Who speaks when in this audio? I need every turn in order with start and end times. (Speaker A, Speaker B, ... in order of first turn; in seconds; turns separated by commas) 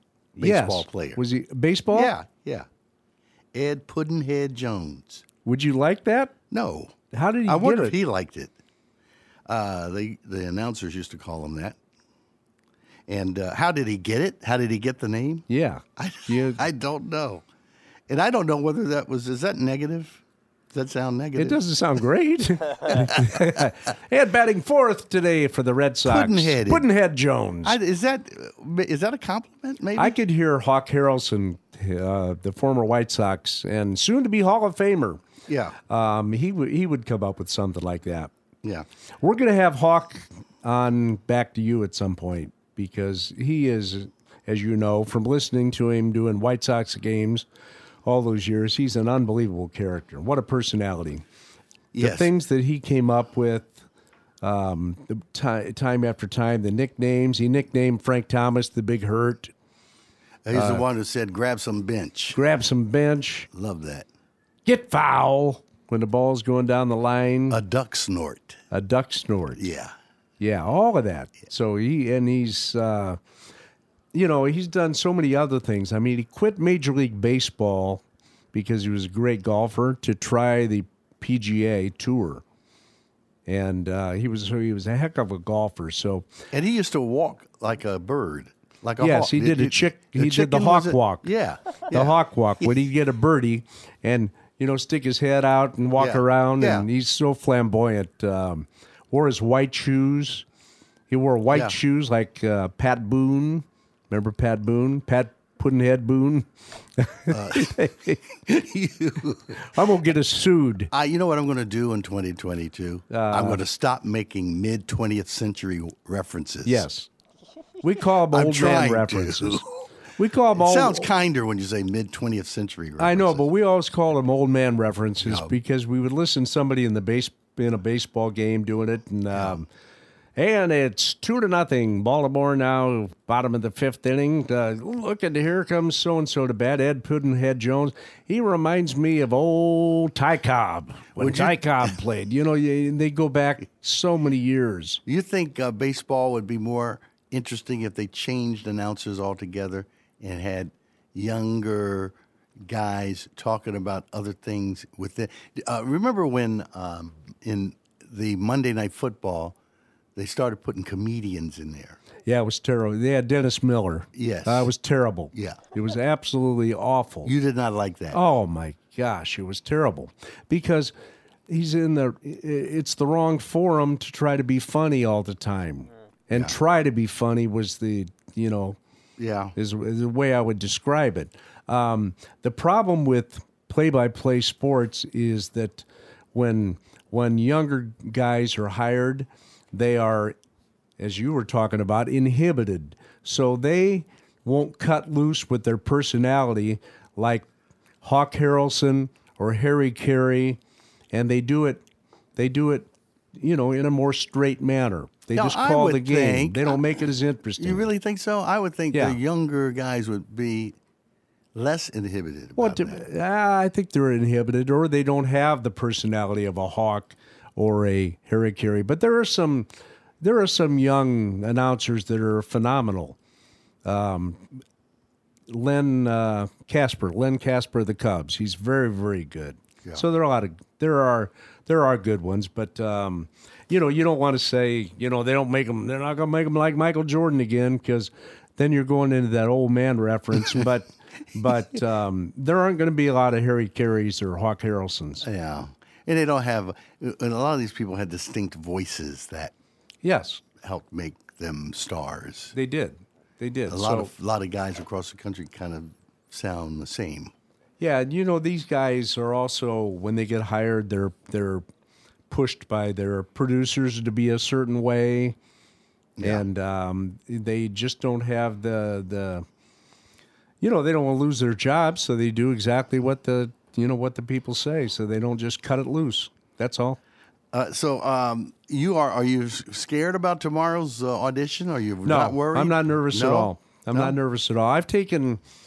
Speaker A: 0.3-2.1, Speaker B: 0.4-1.2, Speaker B: 1.9-2.7, Speaker B: 3.5-5.2, Speaker A: 5.4-6.3, Speaker B: 6.5-8.5, Speaker A: 7.1-8.0, Speaker B: 9.4-11.8, Speaker B: 13.1-15.4, Speaker A: 15.5-16.6, Speaker B: 16.0-17.4, Speaker B: 18.1-20.2, Speaker B: 20.7-21.6, Speaker A: 21.4-27.8, Speaker B: 22.9-23.3, Speaker B: 26.0-26.9, Speaker B: 27.6-30.1, Speaker A: 29.9-35.2, Speaker B: 35.5-35.8, Speaker A: 35.9-38.3, Speaker A: 39.2-47.4, Speaker A: 48.0-51.2, Speaker B: 51.9-52.3, Speaker A: 52.0-53.8, Speaker A: 54.4-59.5, Speaker B: 60.4-62.4, Speaker A: 60.5-60.8, Speaker A: 62.3-63.5, Speaker B: 63.5-64.1, Speaker A: 64.7-67.6, Speaker B: 67.5-68.6, Speaker A: 68.7-69.6, Speaker B: 69.5-69.9, Speaker A: 70.4-73.2, Speaker A: 74.1-78.0, Speaker A: 78.5-82.4, Speaker A: 83.5-86.3, Speaker B: 86.5-92.8, Speaker A: 89.0-91.3, Speaker A: 91.9-100.4, Speaker B: 96.0-96.9, Speaker A: 101.1-106.5, Speaker B: 101.5-101.8, Speaker A: 107.0-108.2, Speaker B: 107.3-107.8, Speaker B: 108.5-109.5, Speaker A: 109.7-110.9, Speaker B: 110.9-116.9, Speaker A: 113.1-113.6, Speaker A: 116.6-117.1, Speaker A: 117.8-119.6, Speaker B: 118.3-119.7, Speaker A: 120.2-121.1, Speaker B: 120.5-123.5, Speaker A: 123.0-129.7, Speaker B: 125.2-125.5, Speaker B: 129.3-129.6, Speaker A: 130.3-145.0, Speaker B: 141.1-141.9, Speaker B: 145.1-159.6, Speaker B: 160.2-162.0, Speaker A: 162.2-167.3, Speaker B: 164.1-164.7, Speaker B: 165.3-165.6, Speaker B: 167.2-168.2, Speaker A: 168.1-170.9, Speaker A: 171.5-178.8, Speaker B: 179.2-179.5, Speaker A: 179.6-190.3, Speaker A: 191.0-197.5, Speaker A: 198.0-200.6, Speaker A: 201.1-201.8, Speaker A: 202.3-207.9, Speaker B: 205.3-206.8, Speaker B: 207.6-210.8, Speaker B: 211.5-213.0, Speaker A: 212.6-219.7, Speaker A: 220.2-223.2, Speaker A: 223.8-224.4, Speaker A: 225.5-245.2, Speaker B: 245.2-249.5, Speaker A: 250.0-250.4, Speaker B: 250.6-252.5, Speaker A: 252.5-254.1, Speaker B: 253.7-257.3, Speaker A: 257.8-261.6, Speaker A: 262.3-265.4, Speaker B: 266.2-266.4, Speaker A: 266.2-269.4, Speaker A: 270.6-277.0, Speaker B: 277.5-284.2, Speaker A: 282.0-285.4